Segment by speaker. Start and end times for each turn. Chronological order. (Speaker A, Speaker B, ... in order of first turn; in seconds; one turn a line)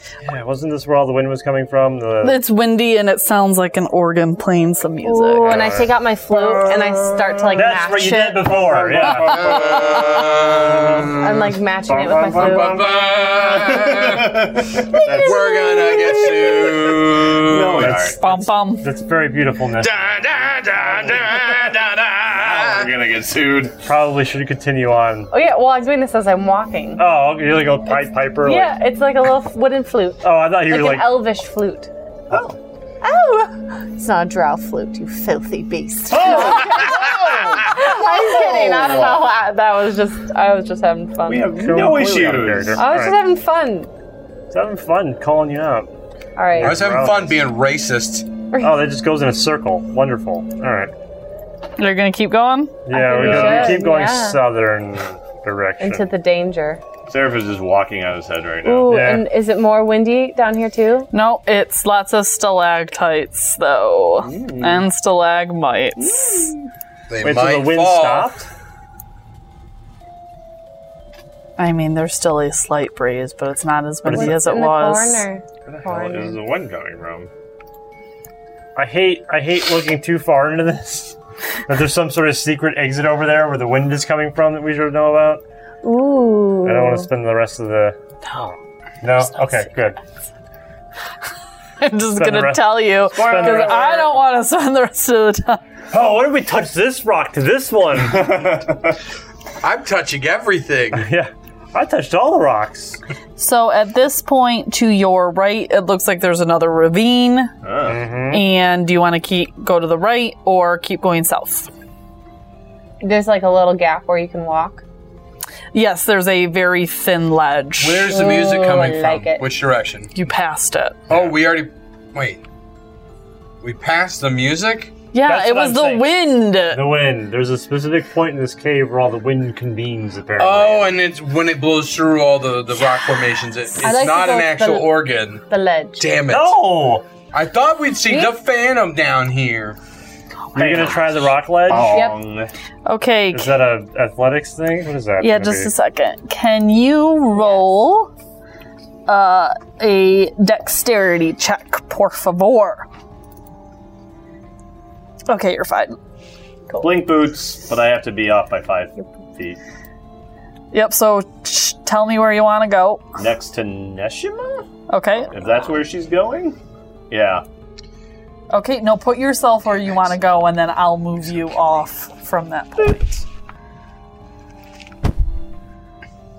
Speaker A: 0.2-2.4
Speaker B: 2.2-5.7
Speaker C: 5.0-9.5
Speaker A: 5.4-11.1
Speaker D: 9.1-11.6
Speaker B: 9.7-10.2
Speaker C: 11.2-12.8
Speaker A: 11.8-13.7
Speaker D: 12.3-18.0
Speaker E: 13.5-15.2
Speaker A: 15.0-15.4
Speaker C: 15.1-16.6
Speaker E: 17.4-18.2
Speaker A: 17.8-20.0
Speaker B: 18.1-18.9
Speaker D: 19.8-22.9
Speaker E: 21.2-21.6
Speaker E: 22.2-23.8
Speaker A: 23.8-25.3
Speaker C: 25.3-27.0
Speaker A: 27.0-28.7
Speaker C: 28.4-31.9
Speaker A: 30.2-31.2
Speaker E: 32.3-32.5
Speaker C: 33.0-41.7
Speaker E: 36.1-39.3
Speaker E: 41.3-42.8
Speaker A: 41.6-43.2
Speaker C: 42.8-43.9
Speaker A: 44.5-45.9
Speaker C: 46.4-46.8
Speaker A: 46.5-47.4
Speaker D: 46.6-48.3
Speaker A: 48.6-50.9
Speaker B: 51.8-52.8
Speaker A: 52.9-56.1
Speaker C: 52.9-54.4
Speaker C: 55.8-56.8
Speaker E: 57.1-59.0
Speaker C: 58.6-61.1
Speaker A: 58.8-59.3
Speaker B: 61.1-66.5
Speaker E: 64.2-64.8
Speaker E: 66.0-66.5
Speaker D: 67.1-68.3
Speaker A: 67.2-68.5
Speaker B: 71.6-75.3
Speaker A: 74.0-74.4
Speaker C: 74.1-76.4
Speaker E: 75.7-77.3
Speaker A: 78.8-81.2
Speaker A: 81.7-85.4
Speaker C: 85.8-87.1
Speaker A: 86.6-90.0
Speaker B: 91.8-95.6
Speaker A: 92.1-93.9
Speaker E: 93.1-94.1
Speaker A: 95.9-98.5
Speaker E: 98.0-99.0
Speaker D: 99.6-101.1
Speaker A: 100.9-103.0
Speaker B: 103.4-107.5
Speaker E: 107.6-108.0
Speaker A: 107.8-108.5
Speaker B: 108.3-111.7
Speaker C: 113.0-114.8
Speaker B: 115.7-118.2
Speaker D: 117.8-120.1
Speaker C: 118.1-119.4
Speaker B: 120.1-121.0
Speaker D: 121.1-122.4
Speaker D: 123.6-124.9
Speaker B: 125.1-126.9
Speaker A: 125.2-126.1
Speaker A: 126.7-130.9
Speaker D: 130.4-135.4
Speaker C: 133.8-134.9
Speaker C: 135.5-136.1
Speaker D: 136.0-136.6
Speaker A: 136.3-137.1
Speaker D: 137.3-139.8
Speaker E: 140.5-142.5
Speaker A: 140.5-142.1
Speaker C: 141.8-142.2
Speaker B: 142.8-143.5
Speaker A: 143.3-145.7
Speaker B: 145.2-148.1
Speaker B: 149.1-152.9
Speaker B: 155.3-156.0
Speaker C: 156.7-156.9
Speaker E: 156.8-159.6
Speaker B: 160.7-163.1
Speaker E: 163.2-164.6
Speaker B: 164.9-165.3
Speaker E: 165.3-166.6
Speaker E: 167.1-167.4
Speaker B: 168.5-173.2